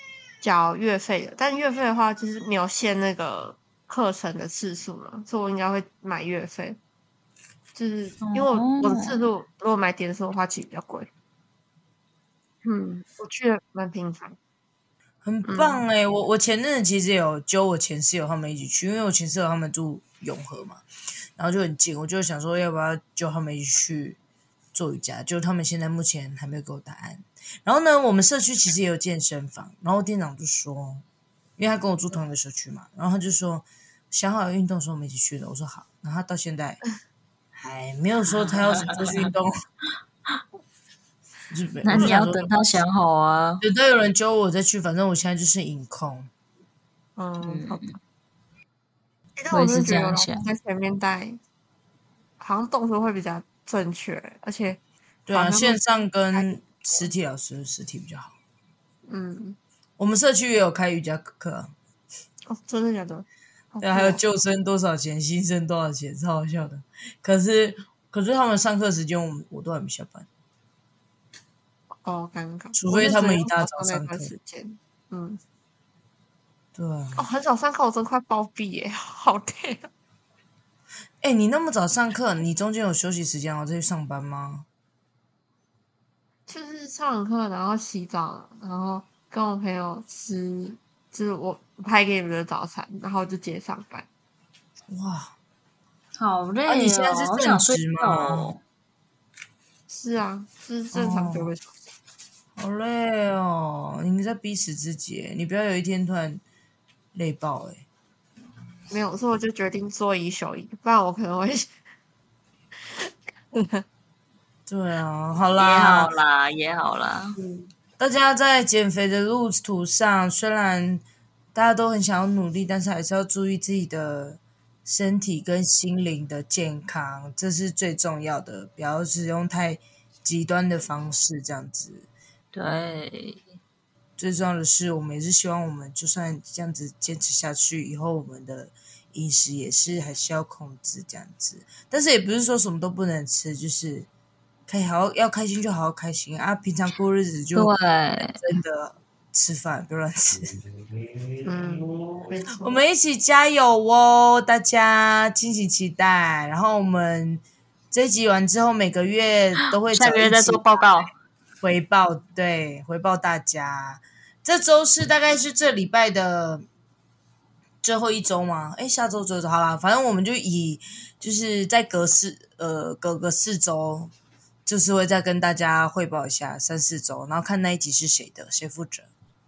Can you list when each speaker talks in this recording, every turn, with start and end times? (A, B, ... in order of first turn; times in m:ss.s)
0:00.4-0:06.8 A
0:07.7-0:11.1 A
0:08.2-0:09.3 B
0:12.6-0:14.4 A
0:15.2-0:20.8 C
0:15.4-0:15.8 A
0:21.4-0:24.2 C
0:24.7-0:31.0 C
0:31.6-0:36.8 C
0:37.6-0:39.5 C
0:41.5-0:42.6 C
0:41.8-0:43.6 B
0:43.6-0:46.3 C
0:47.2-0:48.0 A
0:47.4-0:48.0 B
0:49.4-0:51.4 A
0:49.5-0:50.4 B
0:52.4-0:54.8 A
0:55.3-0:58.3 C
0:55.3-0:55.8 A
0:56.3-0:57.1 A
0:59.0-0:59.6 A
1:00.0-1:01.7 C
1:02.5-1:04.2 A
1:03.8-1:10.3 C
1:12.0-1:15.4 A
1:12.7-1:14.3 C
1:16.8-1:17.2 C
1:17.2-1:19.9 A
1:21.2-1:24.6 C
1:26.5-1:34.1 A
1:34.9-1:35.3 C
1:36.2-1:38.6 B
1:36.7-1:38.5 C
1:39.9-1:41.7 A
1:40.9-1:41.5 C
1:42.6-1:46.4 C
1:47.1-1:47.8 C
1:48.9-1:51.7 A
1:52.9-1:53.8 A
1:54.7-1:56.1 C
1:55.6-1:57.4 B
1:57.4-1:57.7 A
1:58.0-2:01.0 C
2:01.5-2:12.1 C
2:12.5-2:13.4 B
2:14.2-2:24.1 C
2:24.7-2:27.7 C
2:27.5-2:28.4 B
2:28.3-2:30.5 C
2:31.4-2:32.8 A
2:32.6-2:40.8 C
2:39.9-2:41.1 B
2:41.6-2:46.6 C
2:47.8-2:54.1 C
2:54.6-2:59.1 C